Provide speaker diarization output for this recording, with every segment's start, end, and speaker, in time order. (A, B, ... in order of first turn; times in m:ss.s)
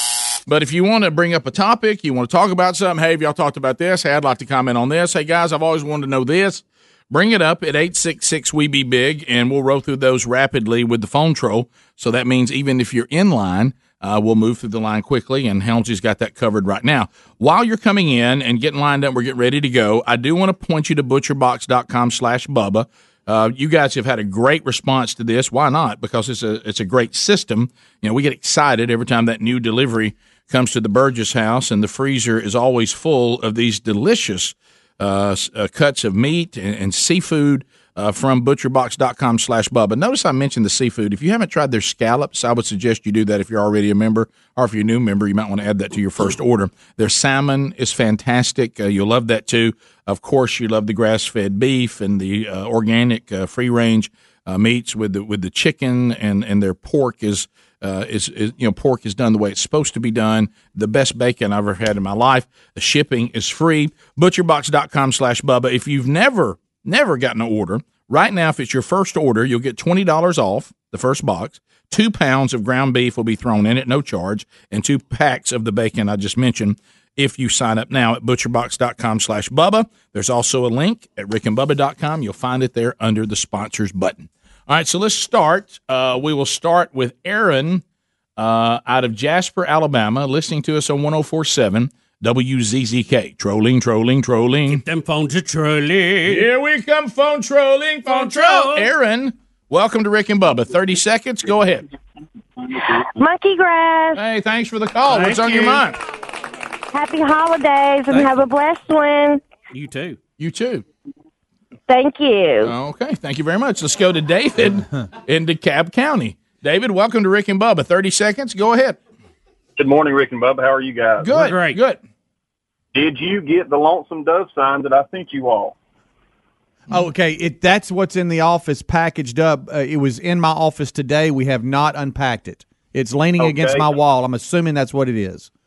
0:00.5-1:27.8 A
1:28.4-1:34.8 A
1:34.7-1:36.5 B
1:36.3-1:41.8 A
1:38.1-1:38.9 B
1:42.7-1:44.2 C
1:44.2-1:46.0 A
1:45.1-1:45.8 B
1:46.9-1:49.4 C
1:48.1-1:48.4 B
1:49.7-1:50.2 B
1:50.4-1:50.8 A
1:51.9-1:52.8 C
1:52.6-1:59.0 A
1:59.8-2:01.3 D
2:01.2-2:02.0 A
2:01.2-2:01.8 B
2:02.9-2:05.8 D
2:06.9-2:15.5 E
2:13.4-2:13.9 D